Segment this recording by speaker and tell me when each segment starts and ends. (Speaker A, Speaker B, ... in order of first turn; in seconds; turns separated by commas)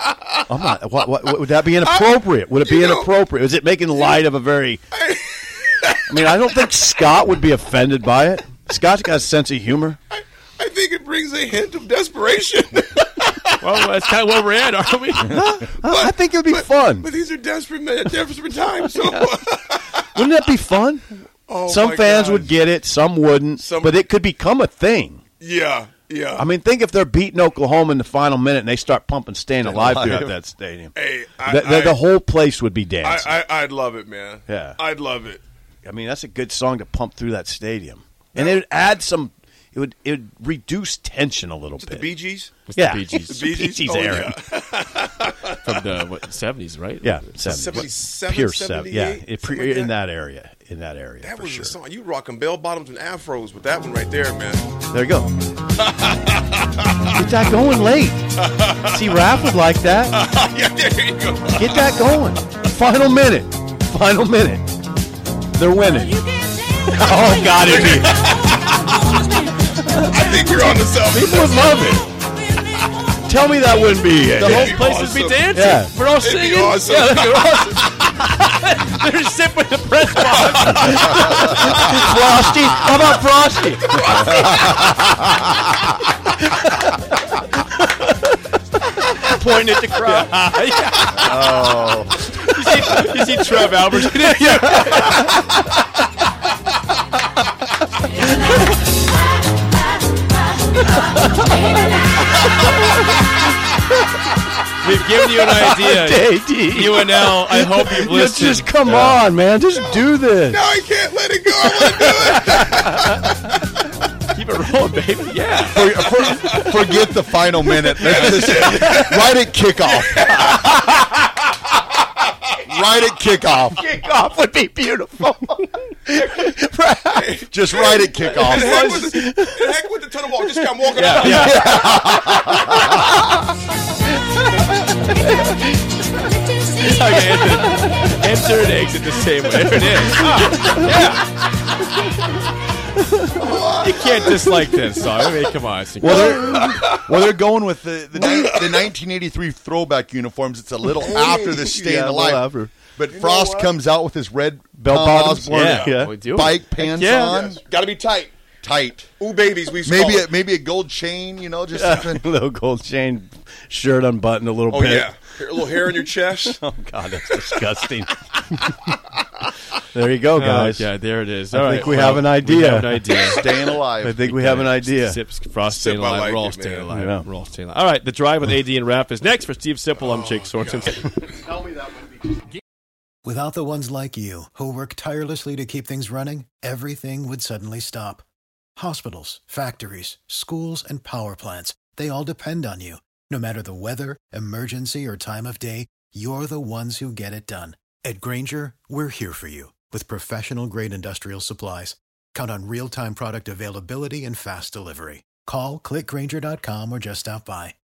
Speaker A: 0.5-4.8, Speaker B: 1.9-2.1, Speaker B: 2.6-3.1, Speaker B: 4.9-6.2, Speaker A: 6.1-10.0, Speaker B: 10.1-13.6, Speaker C: 13.6-15.4, Speaker A: 15.3-17.1, Speaker B: 15.8-20.1, Speaker A: 20.1-25.2, Speaker B: 21.5-22.5, Speaker B: 23.6-24.0, Speaker B: 25.4-26.5, Speaker A: 26.4-33.3, Speaker D: 29.6-30.3, Speaker B: 30.9-32.0, Speaker B: 33.0-35.4, Speaker A: 34.5-34.8, Speaker A: 35.8-42.1, Speaker B: 38.3-38.6, Speaker B: 41.8-42.5, Speaker C: 42.7-43.3, Speaker A: 42.7-44.3, Speaker B: 43.3-45.5, Speaker C: 45.6-47.3, Speaker A: 47.0-51.8, Speaker B: 47.4-49.9, Speaker B: 51.2-54.6, Speaker A: 54.9-55.3, Speaker B: 55.8-57.1, Speaker A: 57.1-60.2, Speaker B: 58.4-59.3, Speaker B: 60.1-62.0, Speaker A: 61.5-64.7, Speaker A: 65.5-66.2, Speaker A: 66.8-68.3, Speaker B: 67.6-69.0, Speaker A: 70.0-72.1, Speaker B: 70.0-71.7, Speaker A: 73.2-74.8, Speaker B: 74.4-75.5, Speaker C: 74.4-81.9, Speaker A: 75.5-75.9, Speaker B: 76.2-77.8, Speaker B: 80.3-81.0, Speaker A: 80.7-85.0, Speaker B: 83.9-84.4, Speaker C: 89.2-91.6, Speaker D: 91.2-92.1, Speaker C: 92.3-95.3, Speaker C: 104.8-109.2, Speaker A: 105.5-110.6, Speaker B: 109.8-113.1, Speaker A: 111.6-112.5, Speaker C: 114.3-115.8, Speaker D: 115.7-120.3, Speaker B: 116.3-116.7, Speaker B: 118.0-119.1, Speaker A: 118.0-119.3, Speaker B: 119.7-120.8, Speaker A: 120.4-120.9, Speaker D: 122.7-123.8, Speaker A: 123.7-127.2, Speaker B: 126.1-126.5, Speaker B: 127.1-131.8, Speaker D: 127.5-128.8, Speaker A: 128.3-129.7, Speaker A: 130.6-133.4, Speaker C: 130.9-131.6, Speaker A: 134.9-135.6, Speaker C: 136.7-141.2, Speaker A: 143.2-143.5, Speaker C: 143.8-146.4, Speaker A: 146.0-146.9, Speaker B: 146.4-146.9, Speaker D: 146.8-157.6, Speaker A: 148.1-148.5, Speaker A: 150.8-153.6, Speaker B: 153.2-153.5, Speaker A: 154.8-156.1, Speaker C: 155.5-157.4, Speaker B: 157.2-158.3, Speaker D: 158.6-159.1, Speaker B: 159.2-160.3, Speaker D: 159.8-162.3, Speaker A: 161.7-165.2, Speaker B: 164.7-166.6, Speaker A: 166.4-168.9, Speaker A: 169.9-170.9, Speaker C: 170.3-173.4, Speaker A: 171.5-173.2, Speaker B: 171.8-172.2, Speaker D: 173.3-174.2, Speaker A: 174.0-175.2, Speaker C: 174.0-181.2, Speaker B: 175.7-176.9, Speaker A: 176.9-177.3, Speaker B: 179.9-181.0, Speaker A: 181.5-182.1, Speaker E: 183.2-188.2, Speaker E: 188.8-207.7